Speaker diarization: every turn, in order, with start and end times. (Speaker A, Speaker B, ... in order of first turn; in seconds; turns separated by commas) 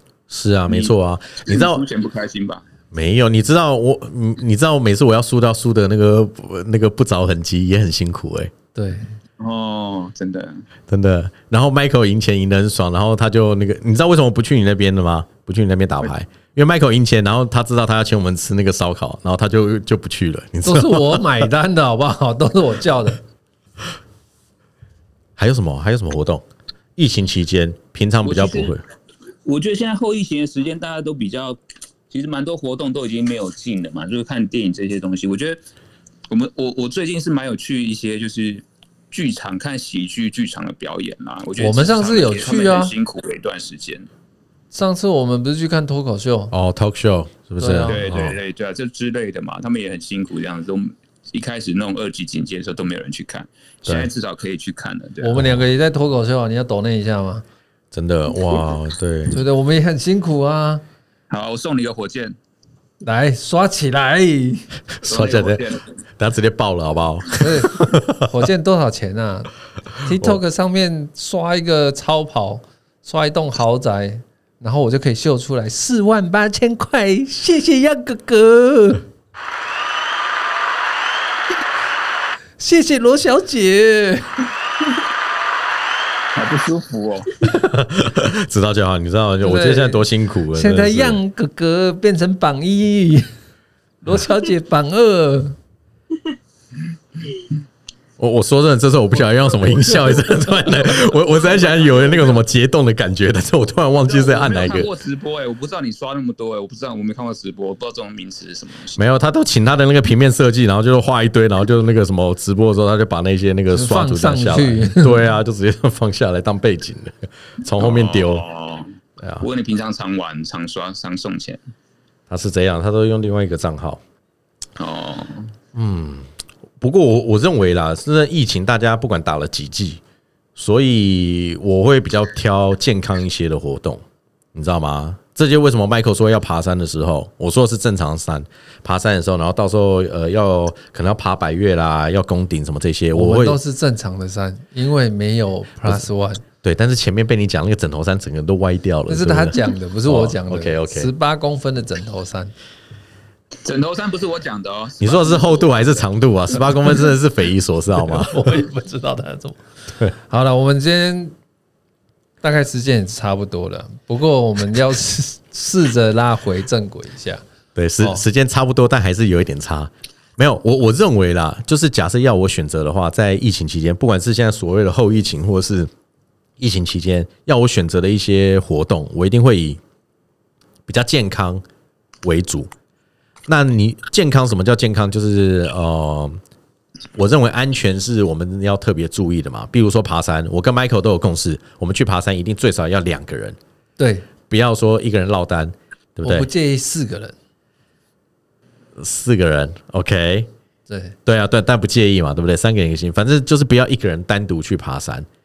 Speaker A: 0.3-1.8, Speaker B: 0.7-2.6, Speaker A: 2.9-8.5, Speaker C: 8.7-9.1, Speaker B: 9.4-10.6, Speaker A: 10.9-21.5, Speaker C: 20.6-23.2, Speaker A: 25.4-26.4, Speaker A: 27.0-28.8, Speaker B: 28.2-28.8, Speaker B: 29.4-31.6, Speaker B: 32.1-35.6, Speaker B: 36.3-44.1, Speaker C: 41.6-42.9, Speaker C: 44.7-46.5, Speaker A: 46.5-48.4, Speaker C: 47.6-48.1, Speaker B: 47.9-55.4, Speaker C: 55.2-57.4, Speaker A: 55.4-55.6, Speaker A: 57.9-59.4, Speaker C: 59.3-60.8, Speaker B: 61.3-62.4, Speaker C: 63.0-64.7, Speaker A: 65.0-65.6, Speaker B: 65.0-65.9, Speaker A: 66.2-68.4, Speaker C: 67.4-79.0, Speaker C: 82.6-84.3, Speaker B: 86.3-87.5, Speaker A: 87.5-91.2, Speaker C: 89.4-93.3, Speaker C: 94.0-95.6, Speaker A: 98.2-104.9, Speaker B: 100.6-102.4, Speaker B: 104.1-109.0, Speaker A: 109.0-118.4, Speaker C: 113.7-115.2, Speaker B: 117.8-121.6, Speaker A: 119.2-119.5, Speaker A: 122.3-124.0, Speaker B: 124.8-125.5, Speaker A: 125.7-126.3, Speaker A: 126.8-130.0, Speaker A: 130.6-134.0, Speaker A: 134.5-143.6, Speaker C: 143.1-146.4, Speaker A: 146.6-151.1, Speaker C: 149.1-152.5, Speaker B: 153.6-156.0, Speaker A: 155.0-158.5, Speaker C: 158.0-159.6, Speaker C: 160.2-161.3, Speaker C: 162.4-167.4, Speaker A: 167.7-175.9, Speaker A: 176.6-179.8, Speaker A: 180.9-181.6, Speaker A: 182.2-182.7, Speaker A: 183.5-186.4, Speaker A: 187.1-193.6, Speaker C: 194.0-194.3, Speaker A: 194.5-196.5, Speaker C: 196.2-197.3, Speaker A: 199.0-200.5, Speaker C: 200.9-201.2, Speaker A: 201.2-205.3